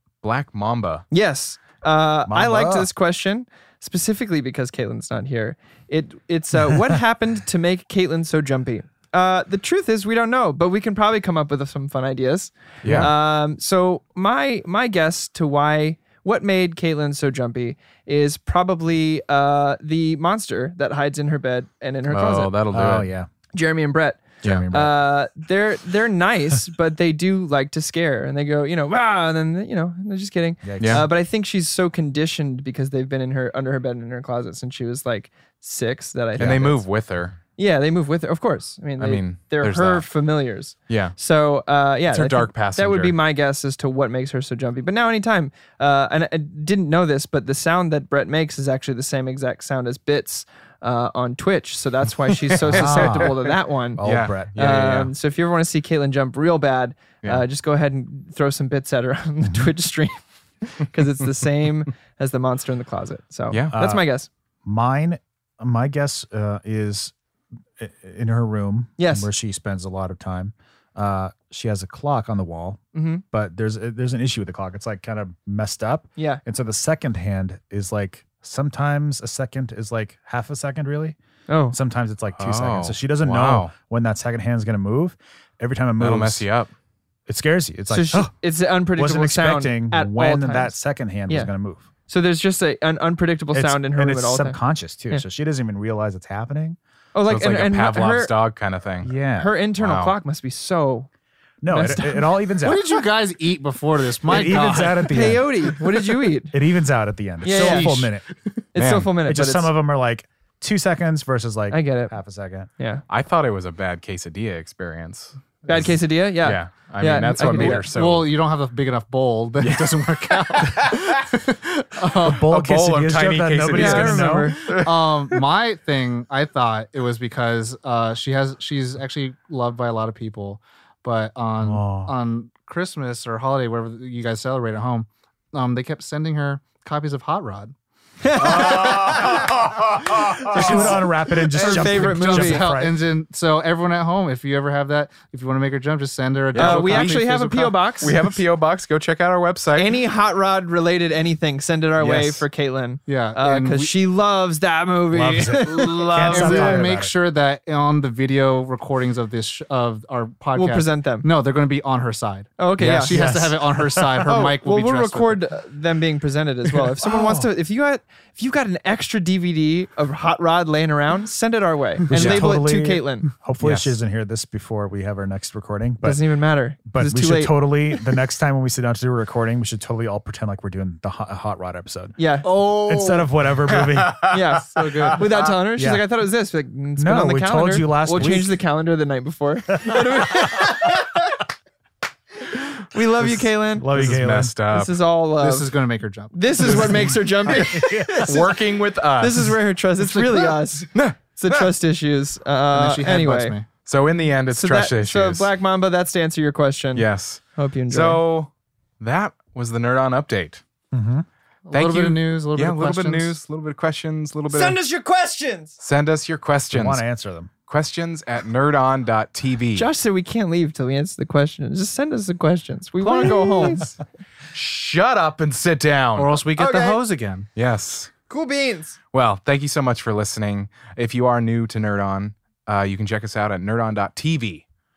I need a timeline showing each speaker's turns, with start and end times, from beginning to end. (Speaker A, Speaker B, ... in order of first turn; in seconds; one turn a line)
Speaker A: 0.2-1.0
Speaker B: 1.1-22.5
Speaker C: 2.3-2.9
Speaker A: 12.8-13.1
Speaker C: 12.8-13.1
Speaker A: 22.1-23.1
Speaker C: 22.7-23.3
Speaker B: 23.5-36.8
Speaker C: 24.4-24.9
Speaker C: 30.6-31.1
Speaker A: 30.8-31.1
Speaker A: 36.4-37.4
Speaker B: 37.6-54.0
Speaker A: 39.0-40.1
Speaker A: 40.9-41.2
Speaker A: 42.1-43.2
Speaker A: 52.4-55.1
Speaker C: 52.6-53.3
Speaker C: 54.0-54.5
Speaker B: 54.5-64.3
Speaker A: 63.5-63.8
Speaker C: 63.7-64.0
Speaker C: 64.6-67.1
Speaker C: 67.8-81.2
Speaker B: 69.0-69.3
Speaker B: 72.9-73.2
Speaker B: 81.5-81.8
Speaker C: 81.7-86.5
Speaker A: 82.3-83.7
Speaker A: 86.0-86.7
Speaker C: 87.3-88.3
Speaker B: 87.9-90.7
Speaker C: 88.9-91.9
Speaker B: 92.1-94.6
Speaker C: 93.5-96.8
Speaker B: 97.1-98.3
Speaker A: 97.3-99.1
Speaker C: 99.0-99.5
Speaker B: 99.3-101.1
Speaker A: 99.8-100.2
Speaker C: 101.6-102.8
Speaker B: 101.7-102.2
Speaker D: 102.6-105.4
Speaker C: 104.3-105.7
Speaker B: 104.3-106.5
Speaker C: 106.5-108.2
Speaker B: 107.4-108.1
Speaker D: 107.5-107.9
Speaker B: 108.7-109.7
Speaker A: 108.7-109.1
Speaker C: 109.2-112.7
Speaker B: 111.7-112.1
Speaker A: 113.1-115.9
Speaker B: 115.7-117.8
Speaker A: 116.4-118.3
Speaker D: 117.3-122.4
Speaker A: 119.6-121.1
Speaker C: 122.2-124.5
Speaker A: 122.3-125.4
Speaker B: 123.7-124.7
Speaker D: 124.6-137.7
Speaker C: 131.6-132.1
Speaker B: 138.2-139.1
Speaker A: 138.3-140.9
Speaker D: 138.4-139.5
Speaker C: 140.4-143.0
Speaker D: 140.4-141.0
Speaker B: 141.5-142.7
Speaker D: 141.5-147.8
Speaker A: 146.5-149.9
Speaker B: 146.5-148.2
Speaker B: 149.8-156.9
Speaker A: 152.0-152.5
Speaker D: 153.1-153.9
Speaker C: 155.1-157.1
Speaker D: 156.2-165.4
Speaker B: 160.6-161.3
Speaker B: 162.6-163.2
Speaker C: 162.8-164.3
Speaker B: 164.2-173.3
Speaker C: 167.0-167.5
Speaker C: 172.1-176.2
Speaker A: 172.1-172.5
Speaker A: 173.6-173.9
Speaker B: 176.0-178.0
Speaker C: 176.8-184.4
Speaker B: 182.2-182.7
Speaker D: 182.4-183.2
Speaker A: 183.7-184.4
Speaker B: 184.3-191.4
Speaker D: 184.7-185.2
Speaker A: 185.1-185.4
Speaker C: 185.7-186.0
Speaker C: 187.0-188.6
Speaker C: 189.8-190.5
Speaker B: 192.8-195.7
Speaker C: 193.2-194.5
Speaker A: 193.9-195.0
Speaker D: 195.4-197.2
Speaker B: 196.3-198.4
Speaker C: 196.6-198.3
Speaker A: 197.5-199.5
Speaker B: 199.2-203.5
Speaker D: 200.0-200.6
Speaker A: 200.9-201.7
Speaker D: 202.7-203.7
Speaker A: 203.8-205.5
Speaker B: 204.5-208.2
Speaker A: 206.9-208.5
Speaker A: 209.0-210.6
Speaker C: 210.9-211.2
Speaker D: 211.7-213.3
Speaker A: 211.7-214.8
Speaker B: 214.5-215.8
Speaker A: 215.8-217.0
Speaker C: 216.7-217.5
Speaker A: 217.7-219.9
Speaker B: 219.8-223.9
Speaker A: 223.0-223.9
Speaker A: 224.5-226.4
Speaker D: 226.2-227.5
Speaker B: 226.5-227.0
Speaker A: 227.6-228.1
Speaker B: 228.3-229.0
Speaker A: 229.1-234.6